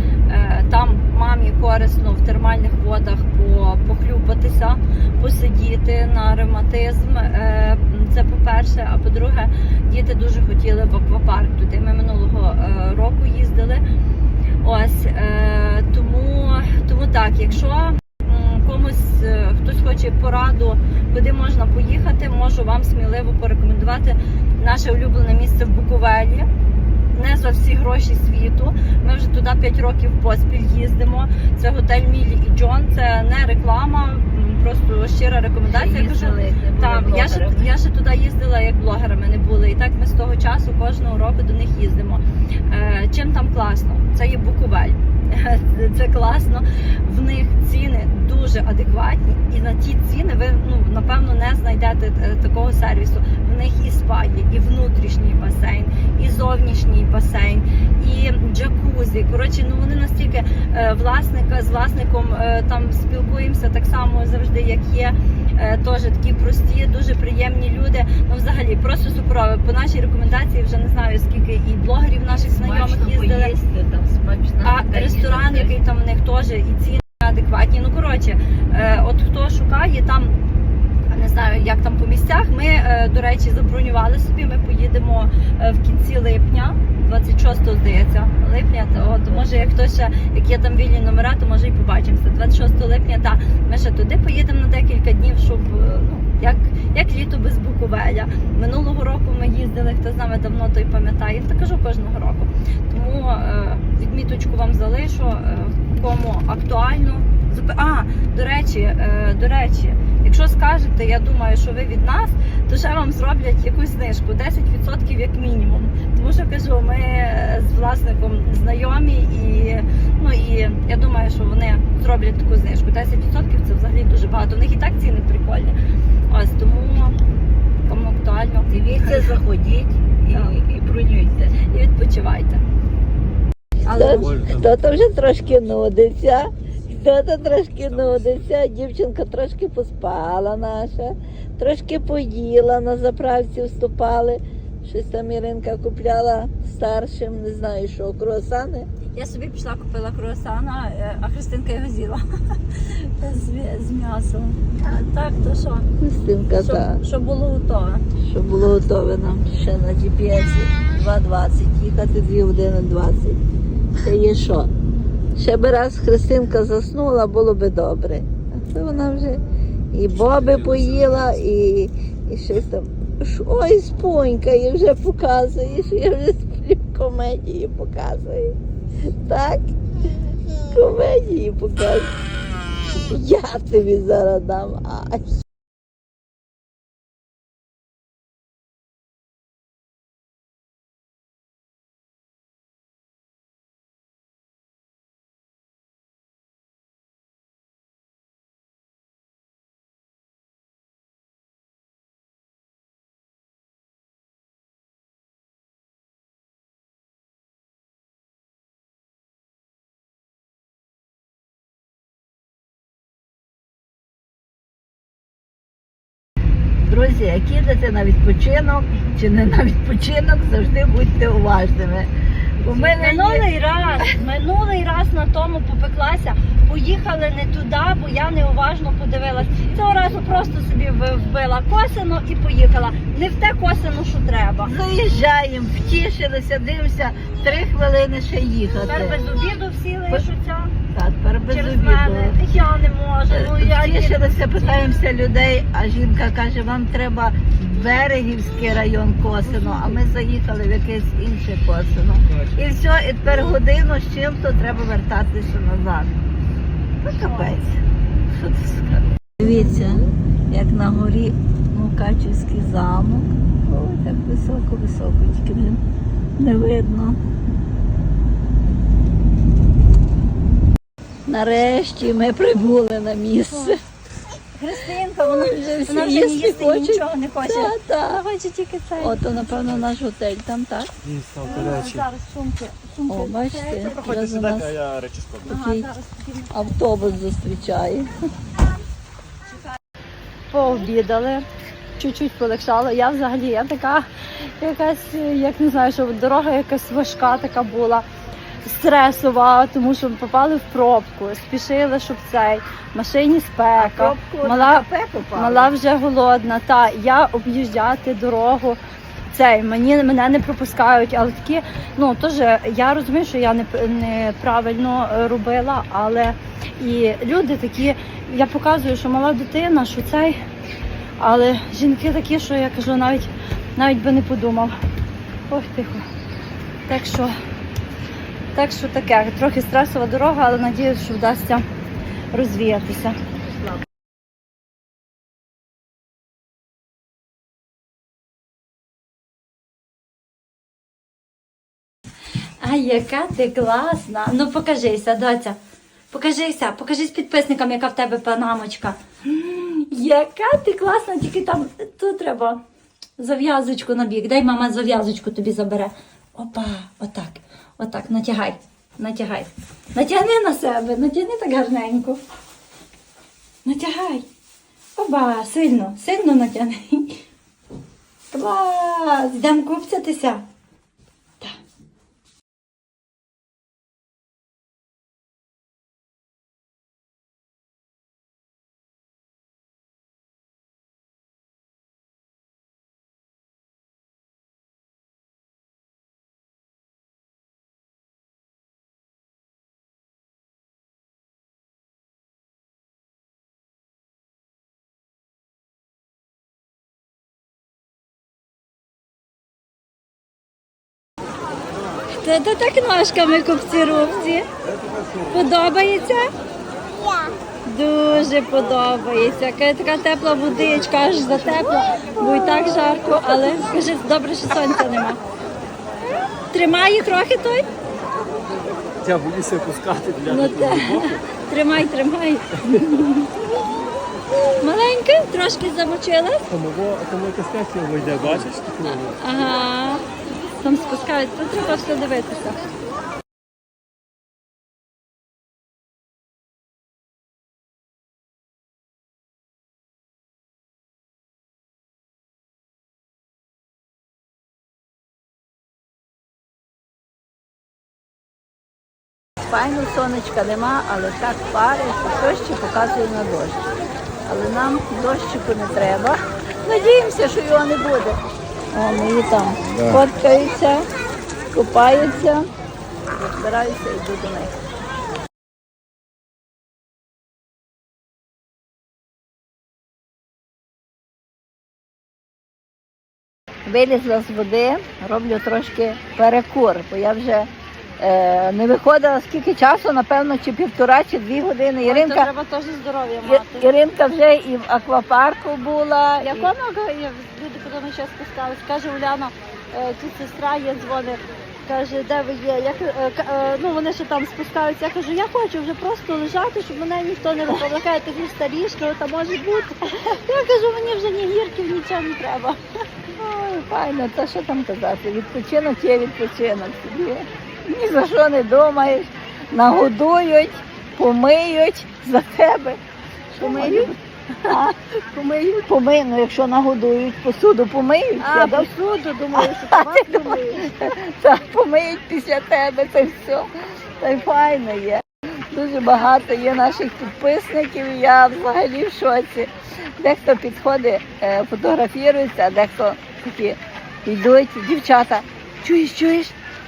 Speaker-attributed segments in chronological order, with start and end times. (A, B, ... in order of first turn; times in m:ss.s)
0:00.3-0:13.8 A
0:14.6-0:26.5 A
0:27.1-1:13.5 A
0:35.6-0:37.7 B
1:12.3-1:15.8 B
1:14.6-1:20.4 A
1:21.1-2:05.8 A
1:29.0-1:29.5 B
2:06.3-2:07.2 A
2:07.8-2:09.4 A
2:08.7-2:11.6 B
2:10.3-2:10.6 A
2:11.6-2:12.6 A
2:13.9-2:28.9 B
2:13.9-2:14.4 A
2:14.0-2:14.8 C
2:29.1-2:35.9 A
2:36.0-2:37.0 B
2:36.6-2:38.0 A
2:38.2-2:43.4 B
2:44.0-2:44.7 B
2:45.4-2:58.6 B
2:59.1-2:59.6 B
3:00.7-3:02.1 B
3:02.9-3:05.3 B
3:36.8-3:43.4 B
3:42.6-3:54.7 A
3:54.6-3:59.2 B
3:58.9-4:00.8 A
4:00.9-4:02.4 B
4:01.5-4:04.9 A
4:03.3-4:16.1 B
4:09.5-4:10.0 A
4:17.0-4:17.6 A
4:17.1-4:17.8 B
4:18.3-4:25.8 B
4:26.4-4:27.2 B
4:31.3-4:33.8 B
4:33.5-4:33.8 A
4:34.6-4:39.3 A
4:35.2-4:38.2 B
4:39.0-4:40.9 B
4:41.0-4:42.0 C
4:41.4-4:44.1 A
4:43.1-4:44.8 B
4:44.0-4:45.5 C
4:45.4-4:46.7 A
4:45.5-4:45.9 B
4:46.5-4:48.1 B
4:50.5-4:51.5 A
4:52.0-4:58.0 A
4:58.6-5:04.8 A
5:03.8-5:05.7 B
5:05.4-5:08.8 A
5:09.3-5:20.4 A
5:21.2-5:24.8 A
5:25.5-5:26.1 A
5:26.9-5:27.3 A
5:28.5-5:31.7 A
5:32.3-5:33.2 A
5:42.6-5:45.6 A
5:46.1-5:52.6 A
5:53.2-6:02.2 A
6:03.6-6:04.3 A
6:05.0-6:07.2 A
6:08.3-6:10.5 A
6:42.1-6:44.5 A
6:44.8-6:45.3 C
6:45.3-6:46.3 A
6:47.7-6:55.2 A
6:56.5-6:57.7 A
6:59.0-7:01.2 C
7:00.2-7:03.3 A
7:04.6-7:06.5 A
7:06.5-7:09.2 C
7:08.8-7:10.1 A
7:10.6-7:12.6 A
7:29.5-7:33.7 B
7:34.3-7:38.2 B
7:38.7-7:40.9 B
7:41.5-7:42.5 B
7:43.1-7:44.6 B
7:53.7-8:02.3 B
8:01.8-8:03.7 A
8:03.3-8:06.5 B
8:06.2-8:22.6 A
8:23.2-8:32.8 B
8:33.3-8:34.0 B
8:33.4-8:33.9 A
8:34.5-8:34.7 B
8:35.1-8:35.6 A
8:35.6-8:38.7 B
8:38.2-8:40.7 A
8:39.4-8:56.4 B